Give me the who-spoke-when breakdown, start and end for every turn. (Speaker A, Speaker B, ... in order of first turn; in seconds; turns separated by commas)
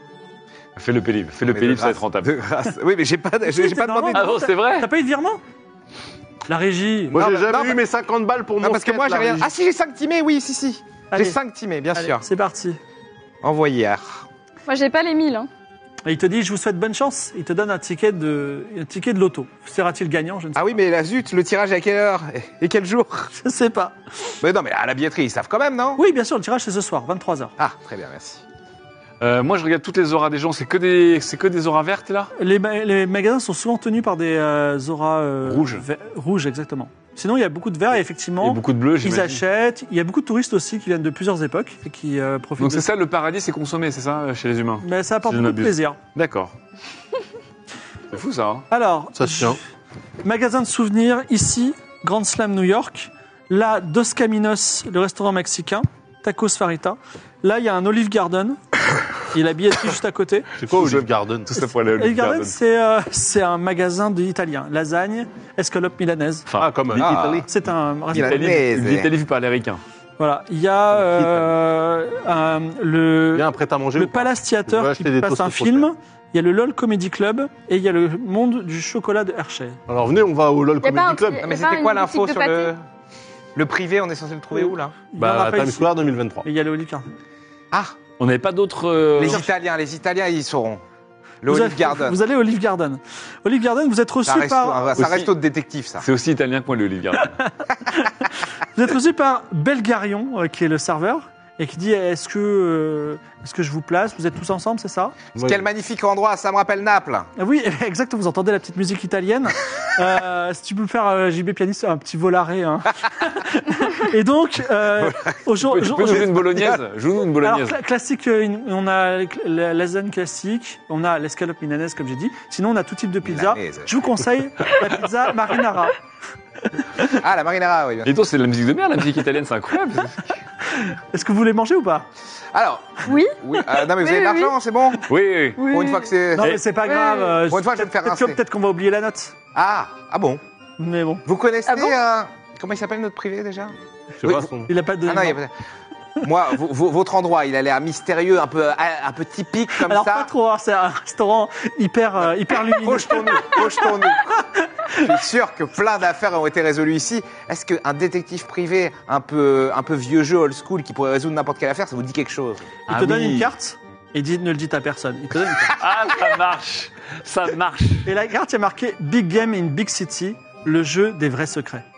Speaker A: 0.8-2.3, Speaker B: 1.4-4.3, Speaker C: 3.5-5.4, Speaker A: 4.1-4.9, Speaker C: 6.5-7.5, Speaker D: 7.1-9.5, Speaker B: 7.2-7.8, Speaker B: 8.6-12.2, Speaker C: 11.1-11.4, Speaker C: 11.9-12.8, Speaker B: 13.4-14.3, Speaker E: 14.7-15.5, Speaker C: 16.1-20.8, Speaker B: 20.6-23.3, Speaker C: 23.3-24.0, Speaker B: 24.4-26.0, Speaker C: 26.0-27.5, Speaker B: 27.6-28.4, Speaker A: 29.2-32.3, Speaker C: 32.4-42.9, Speaker A: 35.4-35.8, Speaker A: 38.4-39.4, Speaker A: 42.6-46.5, Speaker C: 44.8-46.0, Speaker A: 48.1-48.7, Speaker C: 48.7-49.6, Speaker D: 49.1-49.6, Speaker C: 50.2-58.6, Speaker C: 59.3-60.5, Speaker D: 60.6-61.5, Speaker A: 60.7-62.5, Speaker C: 61.5-66.5, Speaker A: 66.5-67.2, Speaker D: 66.6-67.5, Speaker B: 67.0-67.5, Speaker C: 67.5-68.6, Speaker B: 68.1-69.1, Speaker A: 68.1-69.8, Speaker C: 70.2-79.8, Speaker D: 70.9-71.5, Speaker D: 73.3-75.9, Speaker D: 79.9-81.5, Speaker E: 80.8-82.7, Speaker B: 81.4-82.8, Speaker B: 83.5-85.0, Speaker C: 85.1-85.9, Speaker D: 85.2-86.5, Speaker C: 86.4-87.1, Speaker B: 87.7-88.0, Speaker A: 88.2-89.5, Speaker B: 89.2-90.8, Speaker C: 89.2-89.5, Speaker B: 91.4-92.2, Speaker C: 91.5-95.0, Speaker B: 94.3-96.0, Speaker A: 95.0-95.3, Speaker A: 96.0-97.4, Speaker C: 97.2-98.1, Speaker C: 98.7-105.2, Speaker D: 105.4-105.7, Speaker B: 105.4-107.3, Speaker C: 107.4-116.5, Speaker B: 114.9-115.4, Speaker A: 115.6-117.8, Speaker B: 116.1-116.8, Speaker C: 117.4-126.0, Speaker B: 123.2-123.9, Speaker C: 126.7-127.2, Speaker B: 127.1-128.1, Speaker A: 128.1-130.4, Speaker C: 130.7-132.1, Speaker B: 132.5-135.1, Speaker E: 133.1-134.5, Speaker A: 135.1-135.6, Speaker E: 135.6-136.1, Speaker B: 135.7-136.6, Speaker C: 136.3-139.3, Speaker E: 137.0-137.2, Speaker B: 137.5-138.4, Speaker B: 139.5-140.4, Speaker C: 140.8-141.2, Speaker B: 141.3-144.5, Speaker E: 141.7-141.9, Speaker D: 144.2-144.7, Speaker C: 144.7-145.4, Speaker B: 145.0-145.5, Speaker B: 146.2-150.3, Speaker C: 149.8-155.0, Speaker B: 152.7-163.5, Speaker C: 162.9-165.7, Speaker A: 165.8-168.1, Speaker C: 168.1-171.8